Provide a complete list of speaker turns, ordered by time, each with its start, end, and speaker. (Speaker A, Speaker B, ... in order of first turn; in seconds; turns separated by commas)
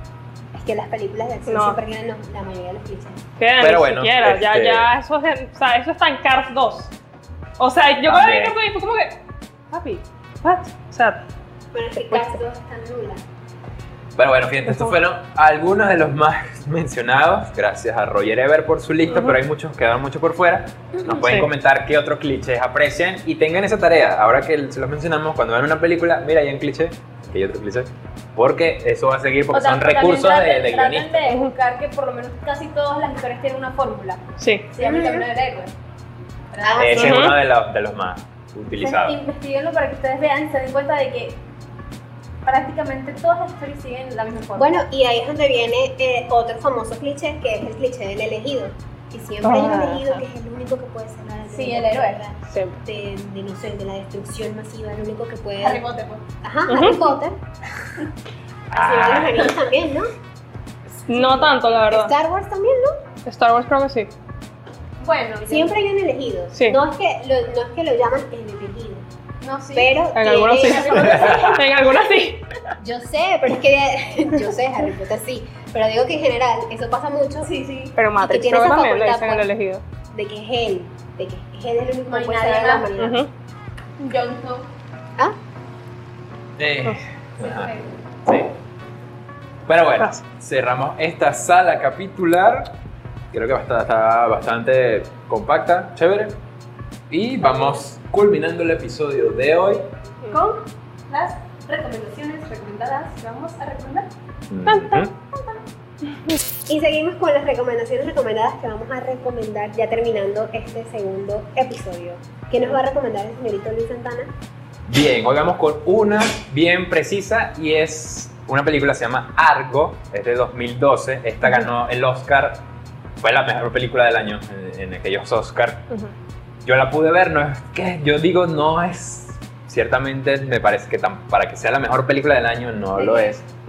Speaker A: 0.5-3.2, Speaker B: 1.5-1.8, Speaker B: 3.4-6.9, Speaker C: 3.6-4.9, Speaker B: 7.6-11.2, Speaker C: 8.0-8.6, Speaker A: 11.7-13.2, Speaker C: 14.2-31.3, Speaker B: 14.7-14.9, Speaker B: 19.1-19.4, Speaker B: 21.0-21.5, Speaker D: 29.5-35.7, Speaker B: 34.4-34.6, Speaker A: 34.8-35.3, Speaker D: 36.5-37.1, Speaker A: 36.6-37.3, Speaker C: 36.8-39.2, Speaker B: 36.9-37.4, Speaker D: 38.7-41.4, Speaker D: 42.4-44.8, Speaker A: 44.5-55.8, Speaker B: 49.4-50.2, Speaker D: 51.5-52.2, Speaker B: 52.5-52.8, Speaker D: 55.6-56.2, Speaker A: 56.4-57.4, Speaker B: 56.7-57.1, Speaker C: 58.7-59.5, Speaker A: 58.7-60.1, Speaker B: 61.1-62.1, Speaker A: 61.1-63.0, Speaker B: 63.2-64.1, Speaker D: 65.0-65.7, Speaker A: 65.5-69.0, Speaker B: 66.5-66.8, Speaker D: 69.4-70.0, Speaker A: 69.7-71.6, Speaker B: 70.1-72.5, Speaker D: 70.5-71.7, Speaker A: 72.8-77.5, Speaker D: 77.4-78.0, Speaker B: 78.0-79.8, Speaker A: 78.2-79.5, Speaker A: 80.1-83.2, Speaker D: 82.1-82.9, Speaker B: 83.0-83.3, Speaker D: 84.0-84.7, Speaker C: 86.6-87.7, Speaker D: 87.4-87.9, Speaker C: 88.2-88.5, Speaker C: 89.7-92.7, Speaker C: 93.3-96.3, Speaker C: 97.1-99.9, Speaker D: 100.3-104.1, Speaker C: 104.5-105.1, Speaker B: 104.7-105.5, Speaker A: 106.7-114.3, Speaker C: 114.9-122.6, Speaker C: 123.2-125.9, Speaker C: 126.6-133.4